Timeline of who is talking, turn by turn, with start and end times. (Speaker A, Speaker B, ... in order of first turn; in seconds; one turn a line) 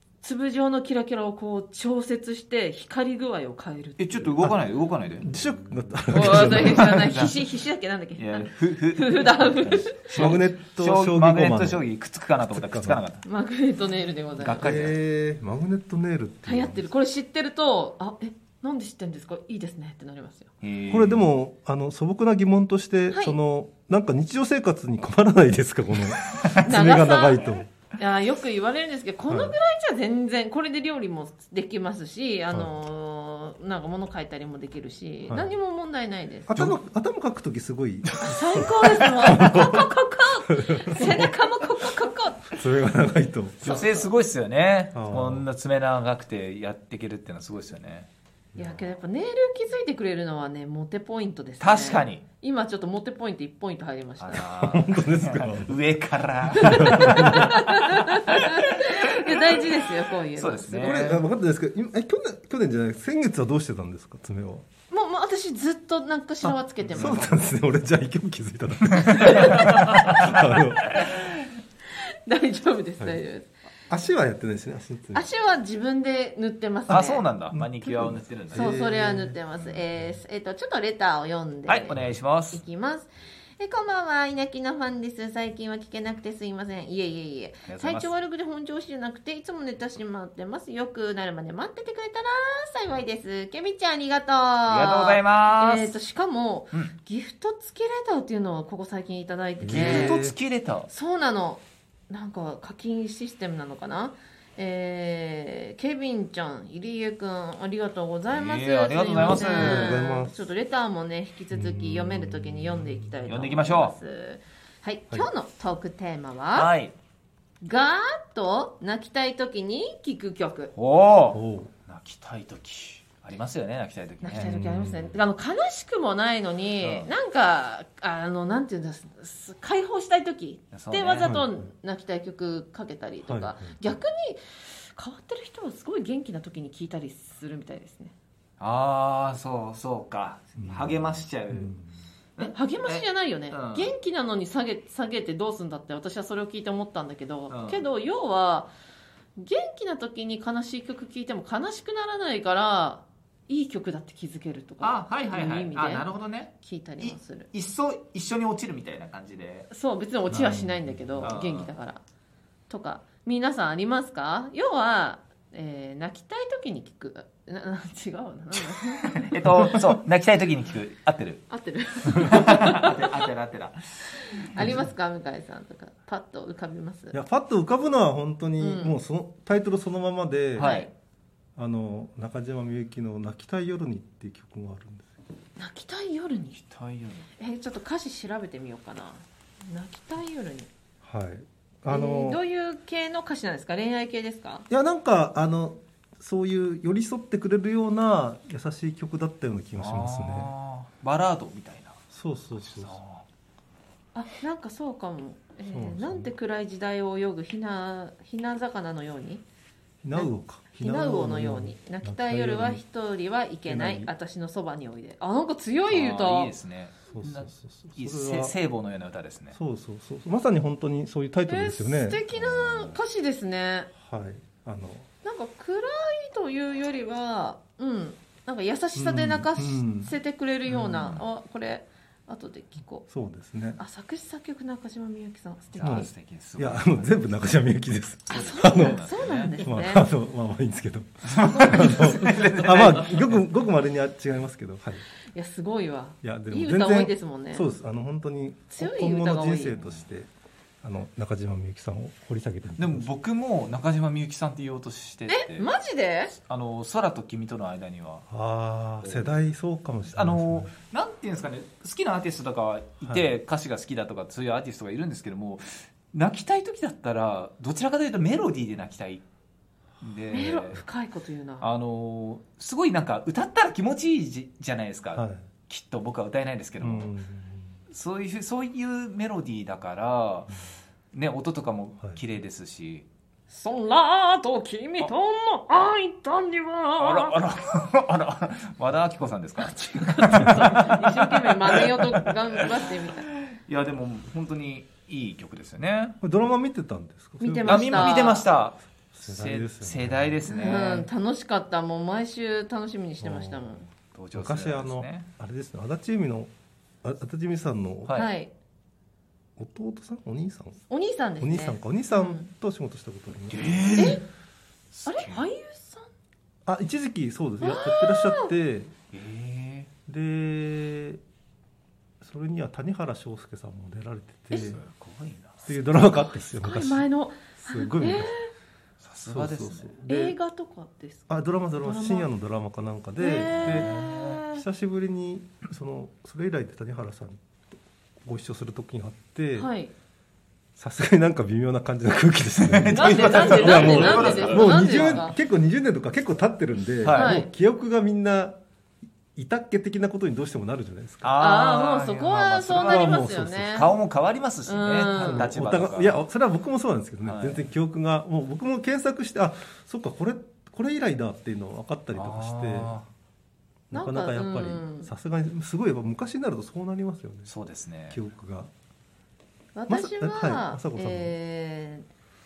Speaker A: 0.2-4.3
Speaker B: 4.0-5.3
Speaker C: 5.2-6.9
Speaker B: 6.1-7.5
Speaker A: 6.1-10.3
Speaker B: 8.2-13.2
Speaker C: 10.1-11.8
Speaker C: 12.5-13.0
Speaker A: 13.2-14.7
Speaker B: 14.4-15.0
Speaker C: 14.6-16.9
Speaker A: 16.4-20.5
Speaker B: 20.6-21.2
Speaker C: 20.9-27.7
Speaker A: 26.6-36.7
Speaker C: 29.3-29.6
Speaker C: 36.5-39.9
Speaker A: 38.2-42.6
Speaker C: 40.5-41.3
Speaker C: 42.5-43.8
Speaker B: 43.6-48.1
Speaker A: 43.6-44.1
Speaker C: 44.9-45.5
Speaker C: 48.5-48.9
Speaker A: 48.5-54.5
Speaker B: 51.6-52.2
Speaker B: 54.2-59.6
Speaker C: 54.4-55.7
Speaker C: 56.5-57.5
Speaker A: 56.5-61.0
Speaker B: 60.4-61.2
Speaker C: 60.8-64.7
Speaker A: 64.9-67.5
Speaker C: 66.4-71.0
Speaker B: 67.0-67.3
Speaker B: 68.9-71.2
Speaker A: 69.2-69.7
Speaker A: 72.2-73.5
Speaker C: 73.9-75.2
Speaker A: 75.1-77.3
Speaker B: 76.9-78.7
Speaker C: 77.5-80.1
Speaker A: 78.5-82.0
Speaker B: 81.7-82.6
Speaker A: 82.5-100.2
Speaker B: 87.7-88.1
Speaker B: 94.7-95.9
Speaker C: 99.6-100.3
Speaker B: 99.7-100.9
Speaker A: 100.9-116.7
Speaker B: 108.3-110.0
Speaker C: 109.3-110.5
Speaker C: 111.5-113.2
Speaker B: 113.2-114.0
Speaker B: 116.5-116.9
Speaker A: 117.6-120.7
Speaker B: 120.7-124.5
Speaker C: 121.3-121.7
Speaker A: 124.2-138.1
Speaker C: 124.3-125.2
Speaker B: 126.8-127.1
Speaker B: 130.7-131.3
Speaker C: 131.2-131.5
Speaker C: 133.2-133.7
Speaker B: 138.6-141.7
Speaker C: 140.6-141.0
Speaker C: 141.5-141.9
Speaker B: 142.4-143.9
Speaker A: 142.4-148.7
Speaker B: 147.5-147.8
Speaker A: 149.3-157.5
Speaker B: 154.8-159.7
Speaker A: 159.7-162.0
Speaker C: 160.3-161.3
Speaker B: 161.2-161.7
Speaker A: 162.7-169.7
Speaker B: 168.7-171.4
Speaker A: 171.5-173.3
Speaker B: 172.2-174.8
Speaker A: 174.3-177.2
Speaker C: 174.6-174.9
Speaker C: 177.1-180.8
Speaker A: 178.6-178.9
Speaker A: 180.6-180.9
Speaker B: 180.6-180.9
Speaker C: 181.6-185.1
Speaker A: 185.6-186.6
Speaker B: 186.6-187.3
Speaker A: 187.4-190.7
Speaker C: 191.0-192.4
Speaker A: 191.9-194.7
Speaker C: 194.7-200.5
Speaker B: 199.8-202.0
Speaker C: 202.1-203.0
Speaker B: 202.6-203.2
Speaker A: 204.1-209.4
Speaker C: 205.6-206.3
Speaker C: 210.0-212.8
Speaker A: 210.1-216.5
Speaker C: 213.7-214.1
Speaker B: 215.9-219.6
Speaker C: 217.1-218.5
Speaker C: 219.5-222.2
Speaker A: 221.5-223.9
Speaker B: 222.3-223.0
Speaker C: 224.0-225.1
Speaker A: 225.2-233.1
Speaker C: 228.9-230.1
Speaker B: 230.9-231.2
Speaker C: 233.1-233.8
Speaker A: 233.8-236.1
Speaker B: 235.7-237.1
Speaker C: 235.8-239.0
Speaker B: 238.3-239.6
Speaker A: 238.3-240.1
Speaker C: 239.6-245.0
Speaker B: 241.2-243.5
Speaker A: 245.3-247.7
Speaker C: 246.2-250.3
Speaker A: 248.7-249.9
Speaker C: 250.8-253.1
Speaker B: 252.8-255.7
Speaker A: 255.3-256.3
Speaker B: 256.5-258.2
Speaker C: 258.3-260.7
Speaker B: 259.0-259.3
Speaker B: 260.1-269.2
Speaker C: 263.1-263.3
Speaker B: 270.0-270.8
Speaker A: 270.3-271.7
Speaker B: 271.6-277.1
Speaker C: 275.1-275.4
Speaker C: 276.8-277.6
Speaker B: 277.9-280.5
Speaker B: 281.1-283.1
Speaker A: 283.5-287.4
Speaker B: 287.0-292.7
Speaker A: 289.6-293.3
Speaker B: 293.5-296.2
Speaker C: 296.2-298.1
Speaker A: 297.4-298.5
Speaker B: 297.6-301.1
Speaker C: 299.1-300.4
Speaker A: 300.5-303.8
Speaker C: 303.2-306.5
Speaker B: 304.1-305.3
Speaker C: 307.0-308.2
Speaker A: 308.1-308.5
Speaker C: 309.6-310.8
Speaker A: 310.9-312.5
Speaker C: 311.4-313.8
Speaker B: 313.5-314.2
Speaker A: 313.9-314.2
Speaker B: 314.9-315.4
Speaker A: 315.1-316.1
Speaker C: 316.6-318.9
Speaker A: 317.6-318.5
Speaker B: 319.1-319.9
Speaker C: 320.1-321.2
Speaker C: 322.2-324.8
Speaker A: 324.5-324.8
Speaker B: 324.6-325.7
Speaker C: 325.6-328.3
Speaker A: 326.1-328.5
Speaker B: 329.0-330.0
Speaker C: 329.2-330.4
Speaker A: 330.1-331.3
Speaker C: 331.3-333.9
Speaker A: 331.8-332.3
Speaker A: 333.2-334.6
Speaker B: 333.5-334.4
Speaker C: 334.4-337.4
Speaker C: 338.2-339.7
Speaker A: 339.6-339.9
Speaker C: 340.8-348.6
Speaker B: 342.6-345.1
Speaker A: 342.9-345.4
Speaker B: 347.0-347.4
Speaker A: 347.1-347.5
Speaker C: 349.4-351.4
Speaker B: 351.2-356.2
Speaker A: 351.4-353.9
Speaker C: 352.7-353.9
Speaker A: 354.6-355.5
Speaker C: 355.1-362.9
Speaker B: 357.2-357.6
Speaker B: 362.1-363.1
Speaker C: 363.9-367.5
Speaker A: 363.9-365.1
Speaker B: 367.4-368.2
Speaker C: 368.1-368.7
Speaker A: 369.7-372.1
Speaker C: 369.9-371.4